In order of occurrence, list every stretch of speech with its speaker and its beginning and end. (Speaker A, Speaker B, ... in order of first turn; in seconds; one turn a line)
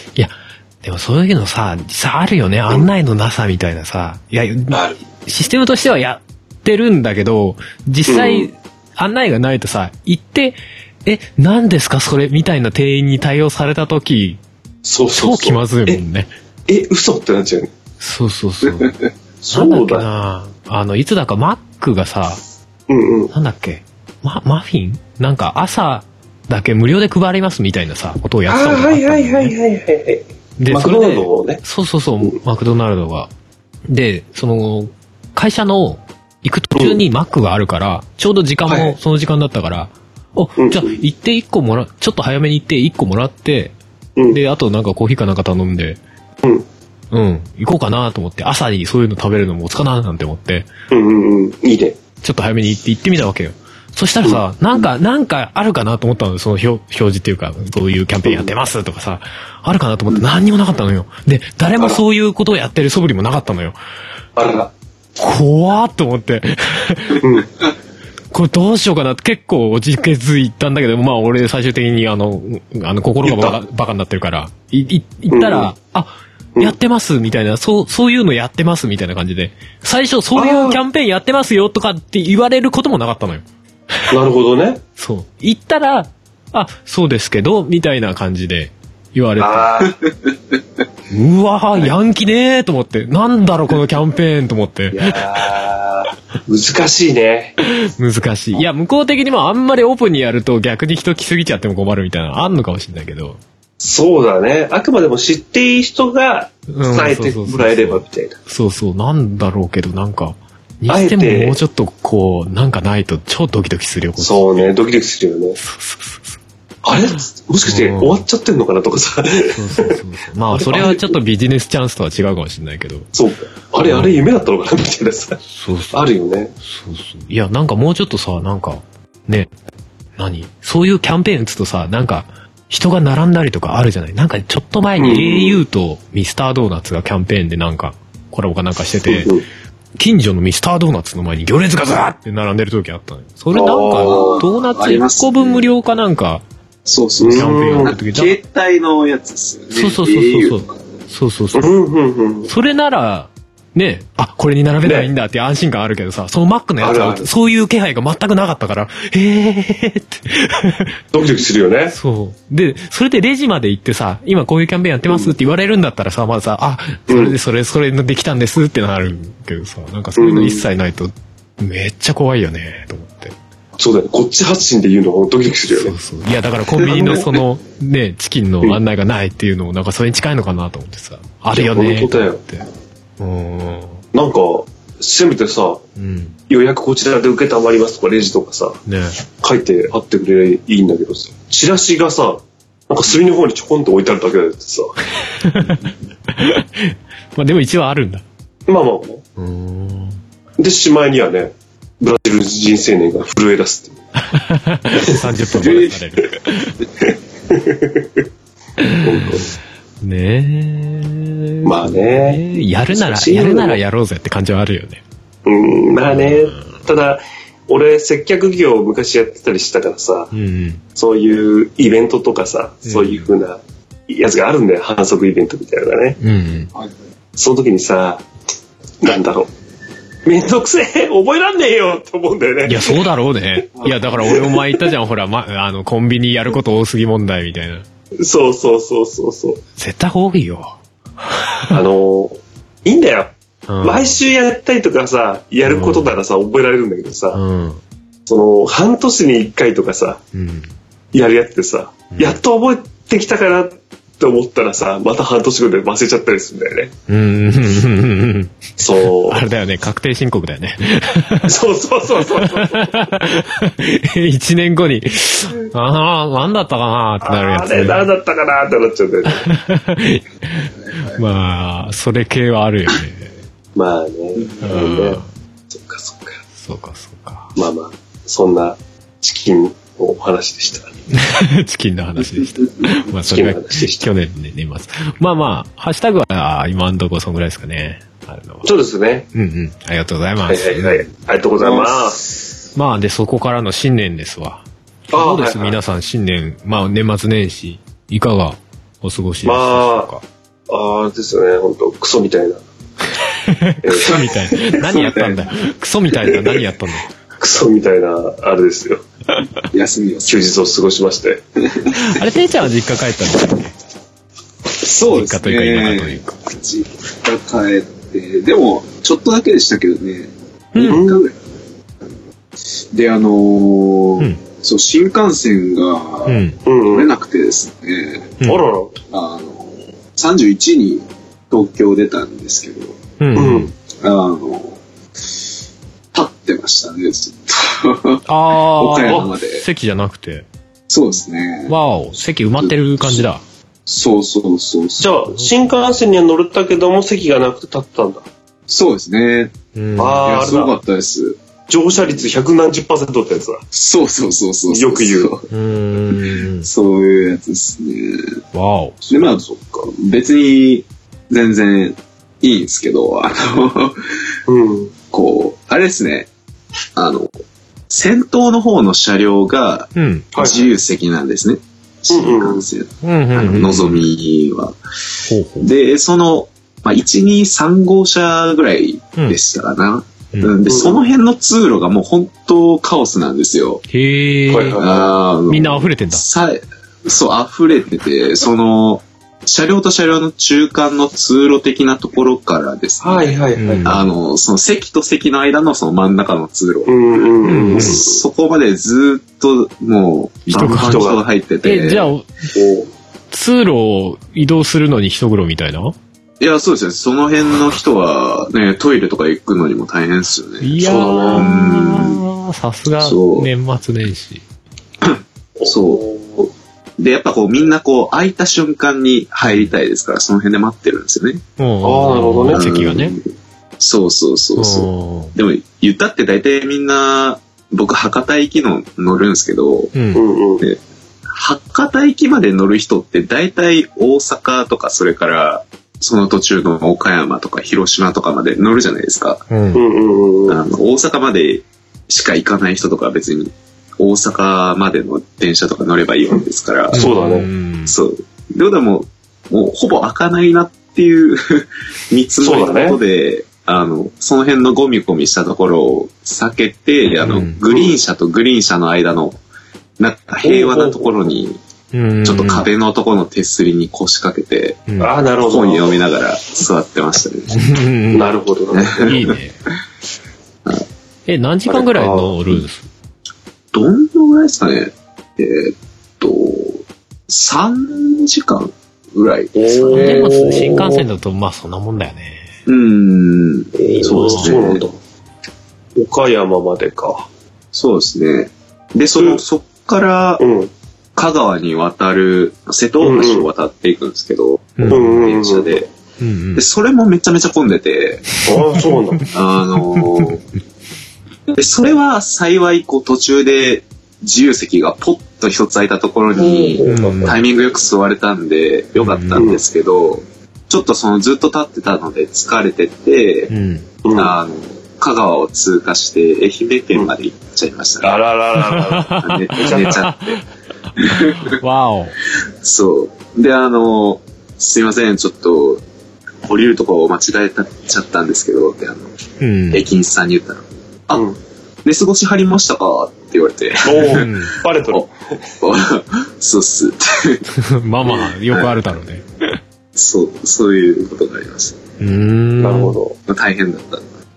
Speaker A: 0.1-14.4
Speaker B: 4.7-5.0
Speaker B: 8.1-8.5
Speaker B: 14.8-16.0
Speaker A: 15.1-16.3
Speaker B: 16.7-17.7
Speaker A: 18.0-19.0
Speaker B: 19.4-20.1
Speaker A: 19.5-22.4
Speaker B: 22.9-23.3
Speaker A: 23.3-29.5
Speaker B: 28.5-31.6
Speaker A: 30.6-33.3
Speaker A: 33.9-43.8
Speaker B: 36.8-37.0
Speaker B: 38.7-39.0
Speaker B: 40.6-41.0
Speaker A: 44.3-46.0
Speaker A: 47.1-50.7
Speaker B: 50.9-52.0
Speaker A: 52.2-63.8
Speaker B: 54.2-54.8
Speaker B: 58.3-58.5
Speaker B: 64.4-64.7
Speaker A: 65.2-67.3
Speaker B: 67.2-67.5
Speaker A: 68.3-84.0
Speaker B: 73.2-73.6
Speaker B: 75.3-75.7
Speaker B: 80.4-80.8
Speaker B: 84.1-84.8
Speaker A: 85.0-89.9
Speaker B: 89.4-90.0
Speaker A: 91.1-95.6
Speaker B: 94.9-97.6
Speaker A: 97.8-103.4
Speaker B: 103.8-108.4
Speaker A: 106.7-114.8
Speaker B: 110.9-111.6
Speaker B: 114.2-115.6
Speaker A: 115.6-116.4
Speaker B: 116.8-120.0
Speaker A: 117.7-118.2
Speaker A: 119.5-123.1
Speaker B: 120.5-121.2
Speaker B: 123.1-125.4
Speaker A: 123.8-124.2
Speaker A: 125.5-126.1
Speaker B: 125.9-126.5
Speaker A: 126.6-129.5
Speaker A: 130.2-139.3
Speaker B: 135.0-135.6
Speaker B: 139.1-139.4
Speaker A: 140.0-146.4
Speaker B: 143.5-144.4
Speaker C: 143.9-145.7
Speaker C: 146.8-150.9
Speaker B: 147.2-148.0
Speaker A: 147.2-148.4
Speaker A: 149.7-151.7
Speaker B: 151.5-152.5
Speaker A: 152.5-161.0
Speaker B: 154.8-155.1
Speaker B: 156.8-157.3
Speaker B: 161.1-162.0
Speaker A: 161.9-173.3
Speaker B: 165.1-165.3
Speaker B: 167.1-167.3
Speaker B: 170.2-170.7
Speaker B: 173.8-175.9
Speaker A: 175.7-182.7
Speaker B: 176.8-177.4
Speaker B: 181.5-182.4
Speaker A: 183.2-184.0
Speaker B: 184.1-185.8
Speaker A: 186.0-186.3
Speaker B: 186.5-188.8
Speaker A: 188.8-189.2
Speaker B: 189.4-195.0
Speaker A: 195.4-198.2
Speaker B: 198.7-199.2
Speaker A: 199.4-200.2
Speaker B: 200.6-204.0
Speaker A: 204.3-206.8
Speaker C: 205.6-205.9
Speaker B: 207.5-208.0
Speaker A: 208.8-209.4
Speaker B: 209.0-209.5
Speaker A: 210.0-215.0
Speaker B: 211.6-213.8
Speaker B: 215.4-220.3
Speaker A: 216.1-216.7
Speaker A: 220.3-220.8
Speaker B: 220.9-226.2
Speaker A: 222.8-223.3
Speaker A: 226.2-226.7
Speaker B: 227.4-228.2
Speaker B: 229.0-229.5
Speaker B: 230.2-233.0
Speaker A: 232.7-237.8
Speaker B: 233.7-234.9
Speaker B: 238.2-239.6
Speaker A: 239.8-241.8
Speaker B: 241.7-247.4
Speaker A: 243.7-244.2
Speaker A: 245.7-246.2
Speaker A: 247.3-247.8
Speaker B: 248.2-250.2
Speaker A: 250.3-250.7
Speaker B: 251.1-256.9
Speaker A: 252.1-252.4
Speaker A: 257.1-258.7
Speaker B: 258.8-259.4
Speaker A: 259.3-261.6
Speaker B: 261.5-263.1
Speaker A: 262.2-268.1
Speaker B: 267.2-269.5
Speaker A: 269.3-273.3
Speaker C: 270.9-271.2
Speaker B: 273.8-276.4
Speaker A: 274.6-275.2
Speaker A: 276.6-277.6
Speaker B: 277.6-280.9
Speaker A: 281.1-288.7
Speaker B: 283.1-284.1
Speaker B: 288.6-289.2
Speaker A: 289.3-291.0
Speaker B: 290.5-292.3
Speaker A: 292.8-300.2
Speaker B: 295.1-295.8
Speaker B: 299.4-300.1
Speaker B: 300.7-302.6
Speaker A: 303.4-307.1
Speaker B: 303.8-304.8
Speaker C: 304.9-305.5
Speaker B: 307.4-309.0
Speaker C: 309.7-310.6
Speaker B: 310.3-311.4
Speaker C: 311.6-312.3
Speaker A: 311.9-313.7
Speaker C: 314.7-321.3
Speaker A: 315.1-316.3
Speaker A: 320.7-321.1
Speaker B: 320.8-321.2
Speaker C: 322.8-328.4
Speaker A: 326.3-326.6
Speaker B: 326.6-327.1
Speaker A: 328.4-328.7
Speaker B: 328.4-329.0
Speaker C: 329.1-333.0
Speaker A: 333.2-333.7
Speaker B: 333.3-333.7
Speaker C: 334.0-334.8
Speaker C: 336.1-339.6
Speaker A: 338.3-340.5
Speaker C: 340.9-341.8
Speaker A: 341.7-343.4
Speaker C: 342.6-343.2
Speaker C: 343.9-345.1
Speaker B: 345.0-348.2
Speaker C: 348.7-349.6
Speaker A: 349.8-350.4
Speaker B: 350.0-350.8
Speaker C: 350.1-351.4
Speaker B: 351.7-353.6
Speaker C: 353.7-355.5
Speaker B: 354.7-355.4
Speaker A: 355.5-356.7
Speaker C: 356.1-358.4
Speaker A: 358.5-359.0
Speaker B: 359.0-359.9
Speaker C: 359.1-364.2
Speaker B: 364.5-364.9
Speaker C: 365.1-366.3
Speaker C: 367.0-367.3
Speaker C: 367.9-374.8
Speaker A: 369.9-370.3
Speaker B: 370.3-370.7
Speaker B: 372.1-372.7
Speaker A: 373.0-374.1
Speaker A: 375.3-375.7
Speaker C: 375.6-383.8
Speaker A: 380.3-380.6
Speaker B: 380.6-381.0
Speaker A: 383.9-384.8
Speaker B: 384.5-385.1
Speaker C: 384.8-396.9
Speaker A: 385.5-386.2
Speaker B: 393.0-393.9
Speaker A: 393.6-394.0
Speaker B: 396.9-398.2
Speaker A: 397.5-398.0
Speaker C: 397.7-402.1
Speaker A: 400.5-401.1
Speaker B: 400.5-401.2
Speaker A: 401.6-402.3
Speaker B: 402.5-402.9
Speaker A: 403.3-405.9
Speaker C: 406.4-412.2
Speaker A: 410.6-414.4
Speaker B: 410.8-411.5
Speaker C: 413.0-413.5
Speaker C: 415.0-421.4
Speaker B: 415.6-416.4
Speaker A: 419.5-419.7
Speaker A: 421.6-423.1
Speaker B: 421.8-422.6
Speaker C: 422.5-423.2
Speaker C: 423.8-429.9
Speaker A: 424.6-425.3
Speaker A: 429.9-430.2
Speaker B: 430.1-430.7
Speaker C: 430.6-439.4
Speaker A: 439.5-439.8
Speaker B: 439.7-440.6
Speaker C: 440.5-447.1
Speaker B: 446.9-447.5
Speaker A: 446.9-448.0
Speaker C: 447.9-459.4
Speaker B: 452.4-453.0
Speaker A: 457.2-457.6
Speaker C: 460.0-461.6
Speaker B: 460.4-461.3
Speaker A: 461.9-462.7
Speaker C: 462.2-464.8
Speaker A: 464.9-465.1
Speaker B: 465.0-466.0
Speaker C: 465.4-467.6
Speaker A: 467.5-468.3
Speaker B: 468.1-469.2
Speaker C: 468.7-469.4
Speaker A: 469.0-469.5
Speaker A: 471.3-472.9
Speaker B: 471.7-472.3
Speaker C: 473.7-480.4
Speaker B: 479.5-481.1
Speaker A: 479.9-482.5
Speaker C: 482.6-484.8
Speaker B: 483.8-485.0
Speaker B: 486.0-487.3
Speaker C: 487.7-490.4
Speaker B: 489.1-489.4
Speaker B: 490.4-490.7
Speaker C: 491.1-495.9
Speaker B: 493.0-493.5
Speaker A: 494.8-495.1
Speaker B: 494.9-495.8
Speaker A: 496.2-496.6
Speaker C: 496.5-498.3
Speaker B: 498.4-499.2
Speaker A: 498.5-498.9
Speaker C: 499.3-500.4
Speaker A: 500.0-500.3
Speaker C: 501.5-513.5
Speaker B: 506.4-507.4
Speaker A: 506.8-507.4
Speaker A: 509.0-509.5
Speaker B: 509.3-509.6
Speaker A: 513.5-513.9
Speaker B: 514.0-514.4
Speaker C: 514.1-518.2
Speaker B: 518.0-520.0
Speaker A: 518.6-520.4
Speaker C: 519.2-520.4
Speaker A: 520.9-522.2
Speaker C: 521.0-521.6
Speaker C: 522.6-525.8
Speaker C: 526.4-529.1
Speaker A: 529.4-529.9
Speaker C: 529.7-531.2
Speaker C: 531.8-535.1
Speaker B: 533.8-535.1
Speaker A: 534.0-534.6
Speaker C: 535.6-537.5
Speaker A: 537.5-539.5
Speaker C: 538.0-538.9
Speaker C: 540.0-541.8
Speaker A: 542.0-543.0
Speaker B: 542.6-543.1
Speaker C: 543.2-544.1